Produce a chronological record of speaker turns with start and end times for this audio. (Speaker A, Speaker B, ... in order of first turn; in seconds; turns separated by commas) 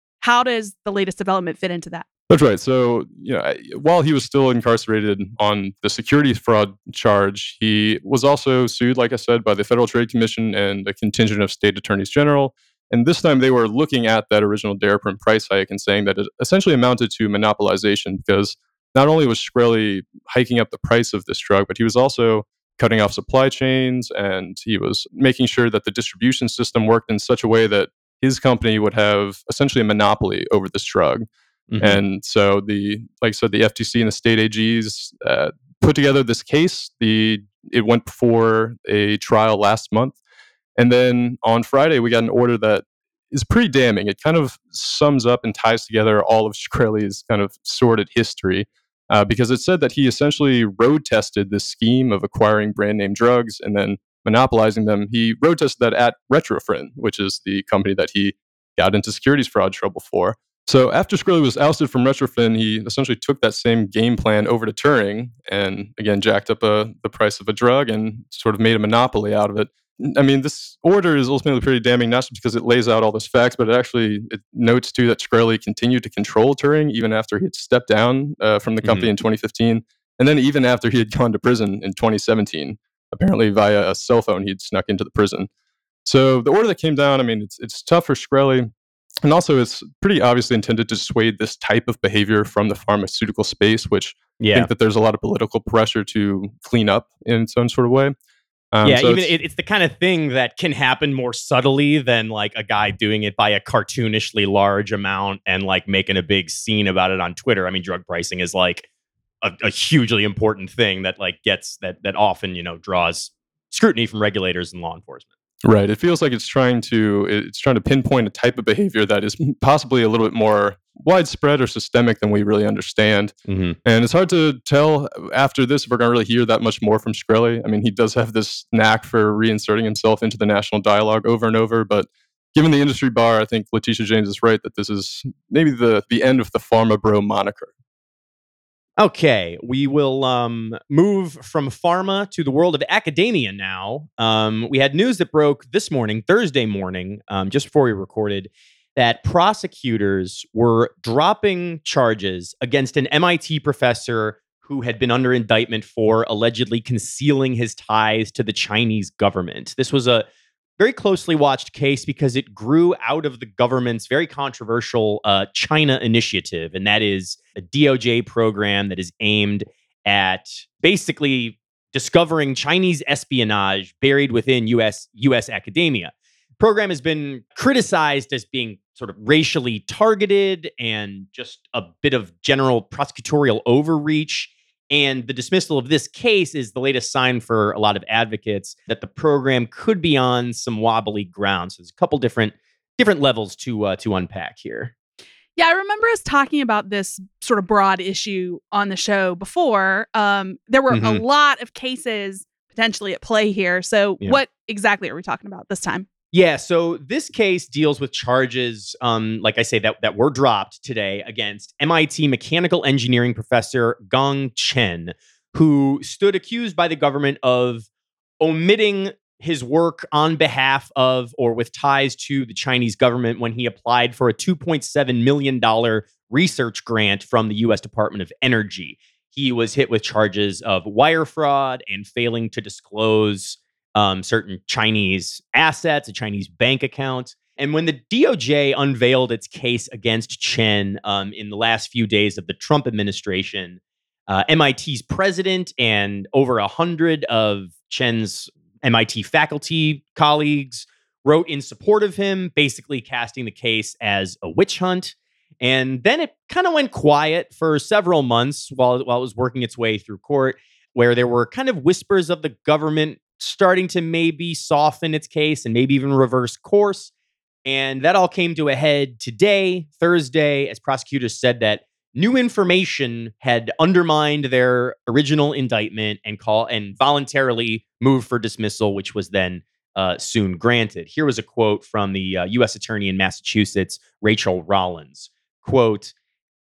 Speaker A: 0.2-2.1, Speaker B: 2.3-31.3, Speaker C: 31.7-32.0, Speaker B: 31.8-40.2, Speaker B: 40.8-85.5, Speaker C: 78.8-79.1, Speaker B: 86.1-88.7, Speaker B: 89.2-98.1, Speaker C: 94.4-94.7, Speaker B: 98.7-99.3, Speaker C: 98.8-108.9, Speaker C: 109.4-115.3, Speaker B: 115.6-137.7, Speaker C: 123.5-123.8, Speaker C: 139.0-160.3, Speaker C: 160.8-194.9, Speaker A: 195.6-206.1, Speaker C: 200.9-201.2, Speaker C: 206.3-217.9, Speaker C: 218.4-267.1, Speaker C: 267.7-286.1